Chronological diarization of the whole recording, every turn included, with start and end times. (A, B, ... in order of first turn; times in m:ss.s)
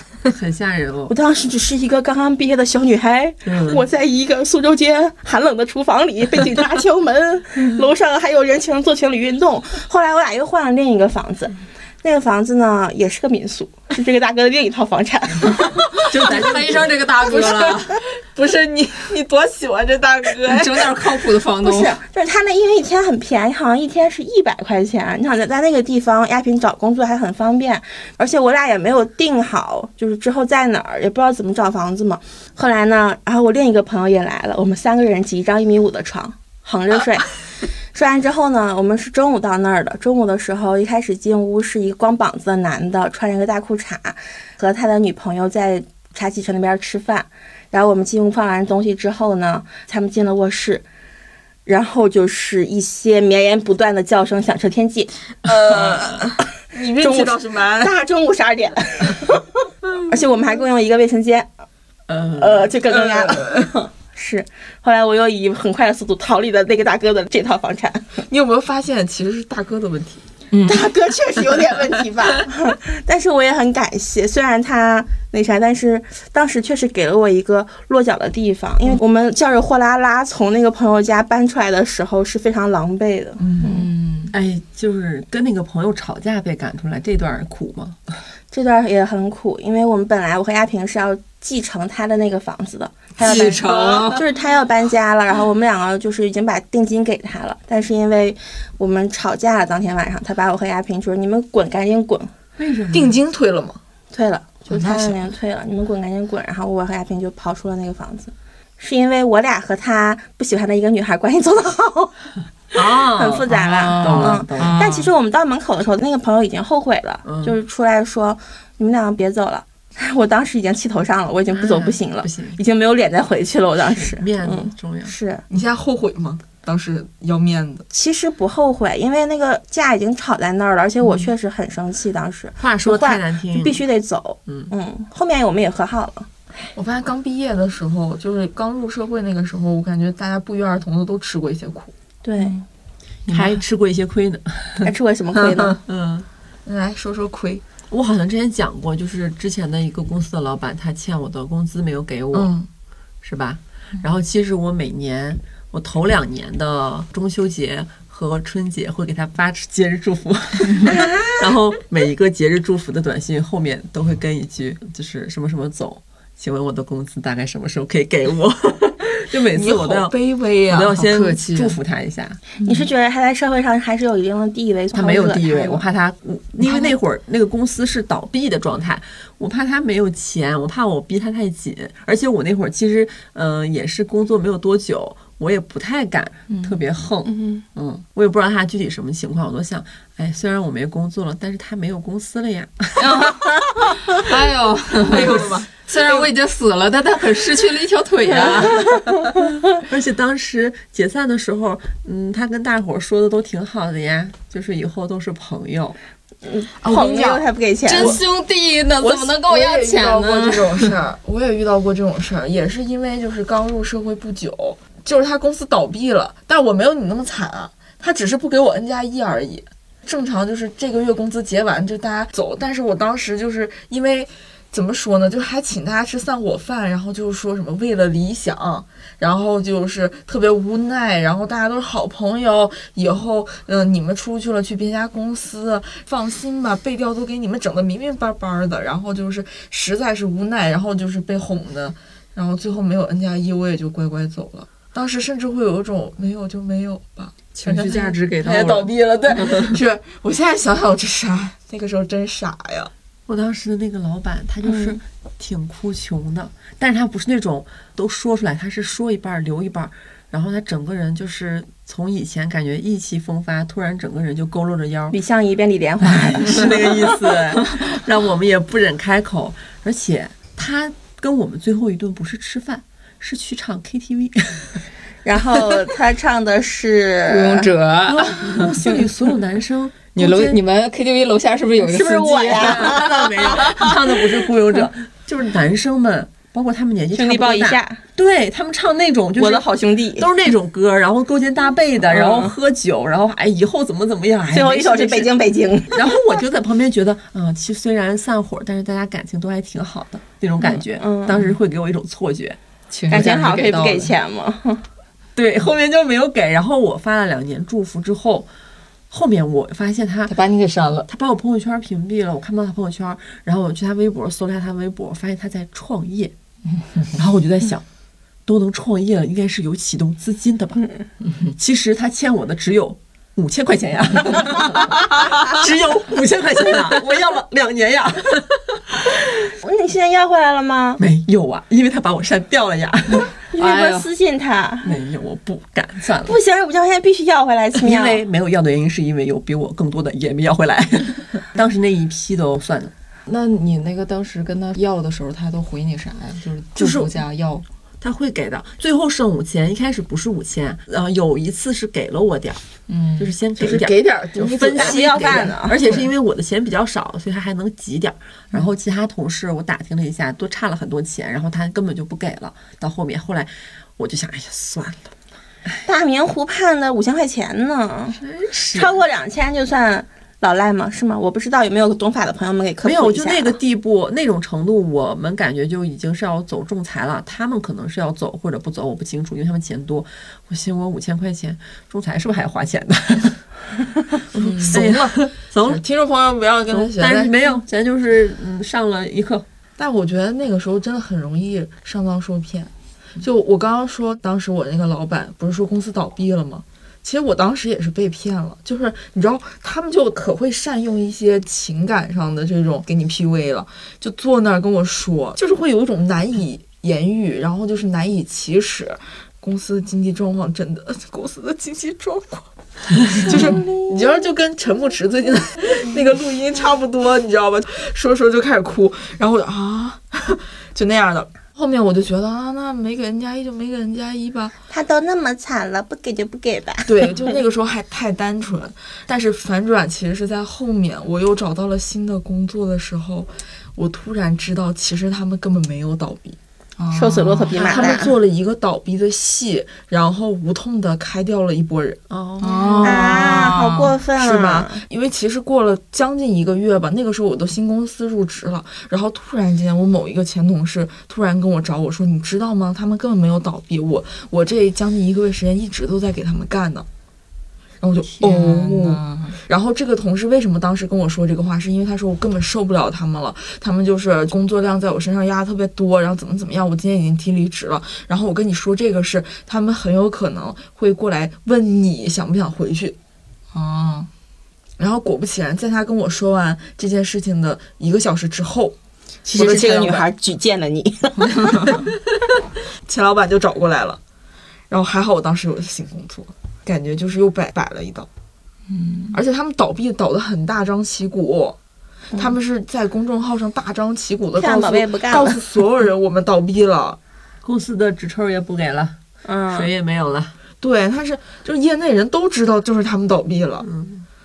0:00.2-0:01.1 A
0:01.1-0:16.0 B
0:03.4-0:03.8 A
0:16.0-0:18.0 C
0:16.0-0:17.0 A
0:17.3-0:21.0 D
0:20.4-0:22.0 C
0:21.6-0:37.3 B
0:37.9-0:50.8 B
0:51.7-0:55.1 B
0:55.4-0:57.9 D
0:55.7-0:56.0 B
0:57.0-0:59.5 B
1:00.0-1:01.5 B
1:02.1-1:02.7 A
1:02.4-1:08.2 B
1:02.9-1:03.7 D
1:08.3-1:10.2 D
1:10.5-1:10.9 C
1:10.7-1:23.9 B
1:23.4-1:23.7 D
1:23.6-1:24.4 C
1:24.3-1:28.1 A
1:28.5-1:42.3 B
1:33.2-1:34.2 C
1:42.6-1:43.2 A
1:42.9-1:43.8 D
1:44.1-1:52.1 B
1:44.7-1:45.2 D
1:52.7-1:54.8 A
1:53.1-2:05.4 B
1:53.5-1:55.1 C
1:57.2-1:57.6 A
2:01.5-2:02.6 A
2:03.8-2:05.1 A
2:05.5-2:07.8 D
2:07.9-2:16.3 B
2:12.6-2:13.8 A
2:14.5-2:14.7 A
2:16.8-2:21.9 D
2:22.2-2:22.6 B
2:23.3-2:23.6 C
2:23.3-2:26.3 A
2:24.8-2:25.8 B
2:26.7-2:27.6 D
2:27.9-2:32.5 A
2:32.3-2:32.7 D
2:33.2-2:50.2 A
2:40.9-2:41.3 B
2:49.5-2:50.9 D
2:50.7-2:52.4 A
2:50.9-2:51.8 C
2:52.6-2:55.8 B
2:54.9-3:13.3 A
3:06.5-3:06.8 C
3:07.3-3:07.6 B
3:13.0-3:19.1 C
3:15.1-3:16.3 D
3:19.8-3:26.0 A
3:26.4-3:28.2 B
3:26.8-3:27.5 D
3:27.8-3:30.9 C
3:29.0-4:12.9 D
4:07.5-4:09.7 C
4:13.3-4:25.2 A
4:14.7-4:15.0 B
4:25.1-4:26.8 B
4:26.1-4:34.8 A
4:35.2-4:37.7 B
4:37.3-4:38.9 C
4:38.1-4:40.6 A
4:40.2-4:43.3 C
4:41.8-4:43.9 B
4:42.1-4:55.3 A
4:47.1-4:48.0 B
4:49.4-4:50.3 B
4:52.1-4:52.5 B
4:54.5-4:56.2 B
4:55.9-5:02.6 A
5:01.0-5:01.4 B
5:02.9-5:04.1 C
5:03.1-5:04.8 B
5:05.4-5:08.5 A
5:09.1-5:10.4 A
5:10.3-5:11.1 C
5:11.1-5:16.3 A
5:17.1-5:17.9 A
5:18.5-5:20.8 A
5:21.5-5:28.8 A
5:29.6-5:31.0 B
5:31.0-5:33.3 A
5:33.5-5:34.9 B
5:33.6-5:34.1 C
5:34.8-5:36.4 A
5:36.3-5:38.2 B
5:37.8-5:42.9 A
5:43.3-5:47.6 C
5:46.8-5:47.1 A
5:48.0-5:52.6 A
5:52.9-5:53.4 C
5:53.2-6:05.1 A
5:53.6-5:56.0 D
5:54.7-5:55.8 B
6:05.8-6:08.2 B
6:08.1-6:09.0 A
6:08.7-6:13.6 B
6:12.8-6:23.4 A
6:24.4-6:24.8 C
6:24.4-6:27.3 D
6:24.6-6:25.8 A
6:26.7-6:29.5 A
6:29.8-7:04.6 D
7:04.7-7:06.9 B
7:06.9-7:16.4 D
7:16.8-7:17.9 C
7:16.9-7:18.1 B
7:17.6-7:22.0 D
7:22.1-7:23.2 A
7:22.4-7:24.0 C
7:22.8-7:23.2 D
7:22.8-7:24.8 B
7:24.2-7:36.9 D
7:37.8-7:53.0 D
7:38.2-7:39.4 C
7:53.5-7:54.1 C
7:54.8-7:58.8 D
7:59.3-8:01.4 B
7:59.3-8:00.1 D
8:01.2-8:01.8 C
8:01.7-8:02.0 D
8:02.9-8:04.0 D
8:04.7-8:08.1 D
8:08.7-8:09.2 C
8:09.1-8:11.6 D
8:12.1-8:17.0 D
8:14.4-8:15.4 B
8:17.4-8:19.0 A
8:19.2-8:19.7 B
8:19.5-8:20.3 A
8:20.6-8:23.7 D
8:23.6-8:24.0 A